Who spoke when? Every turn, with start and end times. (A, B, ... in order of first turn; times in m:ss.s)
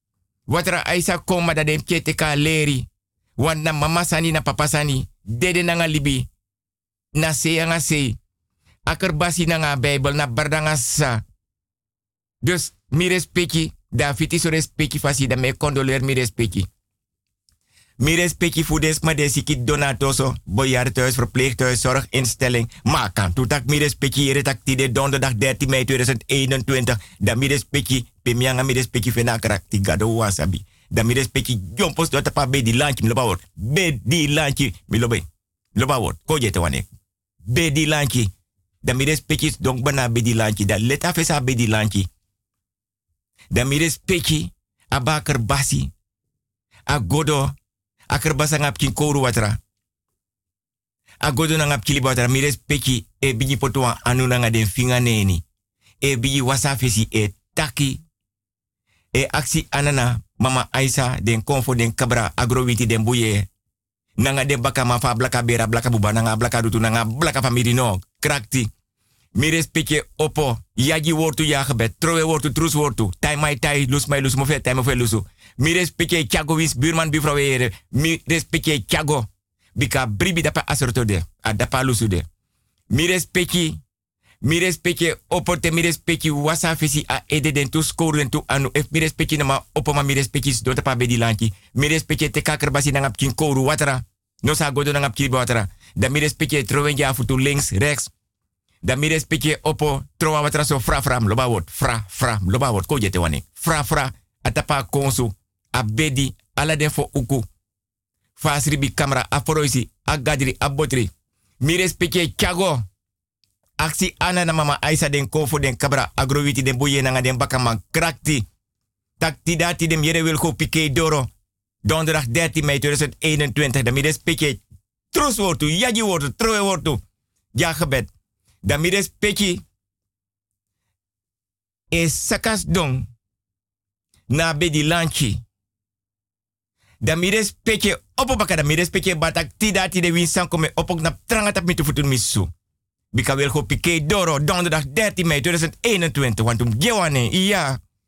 0:00.5-0:06.3 A
0:07.1-0:08.2 A
0:08.9-0:11.2 A
0:12.4-0:16.7 A
0:18.0-0:35.2 A
0:35.8-0:36.8 A
0:37.5-0:38.3 A
0:38.8-0:42.1 A
0:43.5-0:45.9 A
0:46.9-0:47.6 A
0:48.1-0:49.6 A
0:51.2-0:55.4 A
0:56.0-0:58.0 A
0:59.1-1:03.5 A
1:04.2-1:08.7 A
1:09.4-1:22.2 A
1:22.9-1:23.8 A
1:24.4-1:38.1 A
1:38.8-1:47.4 A
1:48.4-1:51.1 A
1:51.6-1:52.8 A
1:53.8-1:58.4 A
1:59.2-2:01.3 A
2:01.8-2:04.6 A
2:05.1-2:07.0 A
2:07.5-2:08.1 A
2:08.6-2:09.6 A
2:11.9-2:13.1 A
2:14.3-2:15.4 A
2:17.0-2:22.5 A
2:23.1-2:27.8 A